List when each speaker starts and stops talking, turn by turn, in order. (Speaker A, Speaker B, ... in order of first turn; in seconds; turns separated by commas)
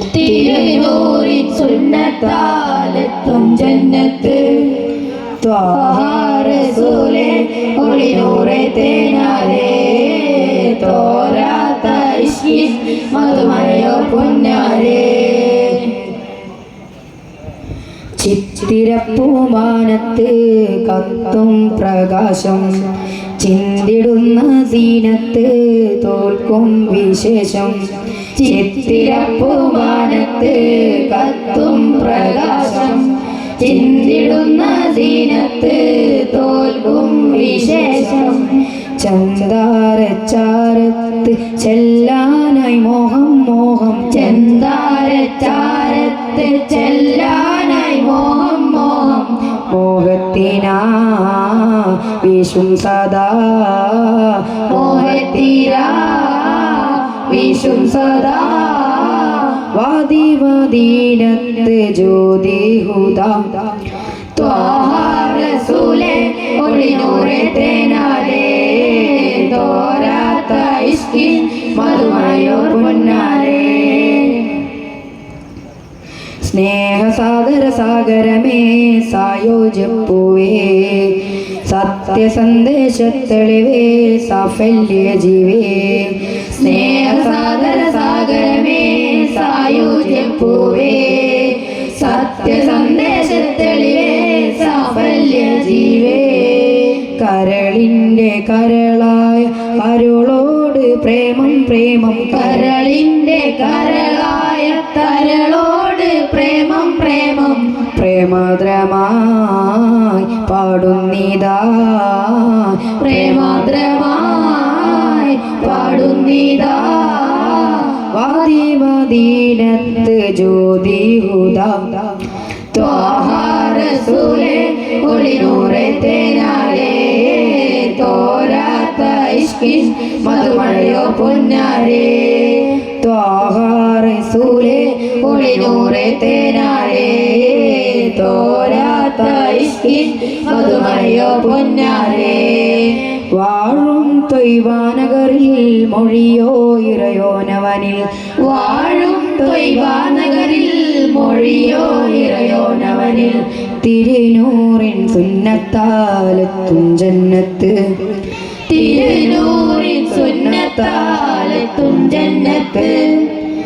Speaker A: 0.1-4.9, Speaker B: 5.4-6.4, Speaker A: 5.7-16.0, Speaker B: 18.2-29.5, Speaker A: 28.4-38.6, Speaker B: 31.9-33.0, Speaker B: 39.0-44.4, Speaker A: 44.1-49.6, Speaker B: 49.6-55.4, Speaker A: 54.7-59.6, Speaker B: 59.6-63.6, Speaker A: 64.3-74.5, Speaker B: 71.7-74.4, Speaker B: 76.4-87.9, Speaker A: 86.6-97.1, Speaker B: 92.3-93.1, Speaker B: 97.0-102.7, Speaker A: 102.3-107.8, Speaker B: 107.9-113.7, Speaker A: 113.0-118.0, Speaker B: 118.0-122.2, Speaker A: 122.7-132.8, Speaker B: 130.2-131.3, Speaker B: 132.9-136.2, Speaker A: 135.0-143.1, Speaker B: 137.6-139.1, Speaker B: 140.5-141.6, Speaker B: 143.3-148.1, Speaker A: 148.4-153.4, Speaker B: 153.8-158.1, Speaker A: 158.7-163.3, Speaker B: 160.1-160.7